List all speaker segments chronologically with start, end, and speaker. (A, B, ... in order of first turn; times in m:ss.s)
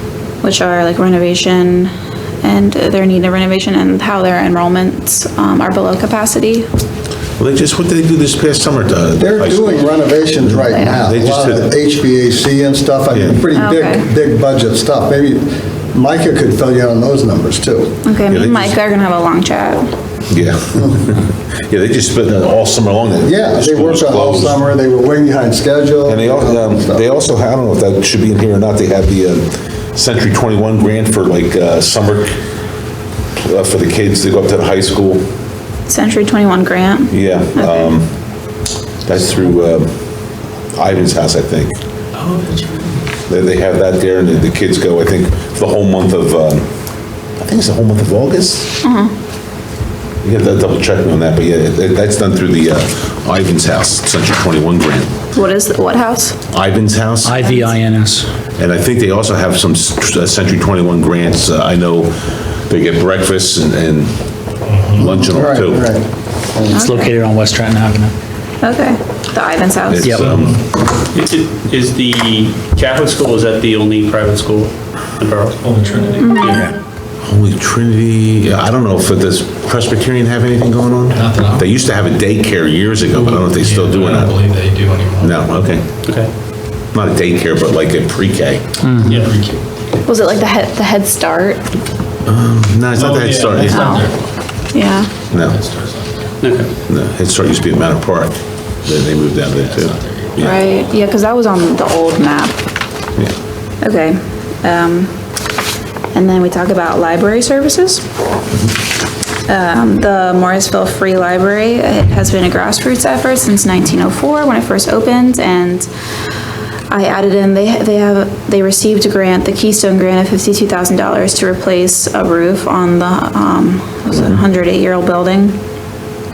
0:00.4-0:06.7 A
0:07.4-0:09.9 B
0:09.2-0:18.0 C
0:10.4-0:11.7 B
0:10.7-0:11.0 A
0:13.1-0:13.4 B
0:13.6-0:14.0 A
0:18.0-0:19.9 A
0:18.3-0:18.7 B
0:20.3-0:24.6 B
0:23.2-0:27.1 C
0:26.0-0:32.3 B
0:33.4-0:35.2 B
0:35.9-0:37.9 A
0:37.1-0:38.1 B
0:39.0-0:39.9 B
0:40.8-0:41.7 B
0:42.2-0:43.0 D
0:43.3-0:46.6 B
0:47.4-0:48.8 B
0:48.8-0:49.1 A
0:50.2-0:55.1 B
0:55.3-0:56.4 A
0:56.5-0:57.4 B
0:57.2-0:58.3 E
0:57.4-0:57.7 A
0:58.6-1:02.1 B
1:02.7-1:04.2 B
1:04.6-1:05.1 D
1:05.0-1:05.8 B
1:05.0-1:06.8 C
1:06.7-1:07.1 A
1:06.8-1:08.1 E
1:08.6-1:10.2 A
1:09.9-1:10.6 B
1:10.0-1:10.4 E
1:10.1-1:10.6 D
1:11.1-1:15.6 F
1:15.6-1:16.5 D
1:16.2-1:16.7 A
1:16.5-1:16.7 E
1:17.2-1:24.4 B
1:23.1-1:25.6 D
1:25.2-1:25.8 B
1:26.0-1:26.3 F
1:26.9-1:28.6 B
1:28.8-1:29.2 E
1:29.0-1:29.6 D
1:29.0-1:29.4 F
1:30.0-1:31.6 A
1:32.2-1:33.9 B
1:32.9-1:34.2 D
1:33.7-1:34.1 A
1:34.7-1:35.1 A
1:35.3-1:35.6 B
1:35.5-1:36.0 D
1:36.4-1:36.7 F
1:36.8-1:40.6 B
1:40.4-1:42.6 A
1:43.8-1:45.1 A
1:46.1-1:48.0 A
1:49.5-1:55.9 A
1:56.9-2:05.6 A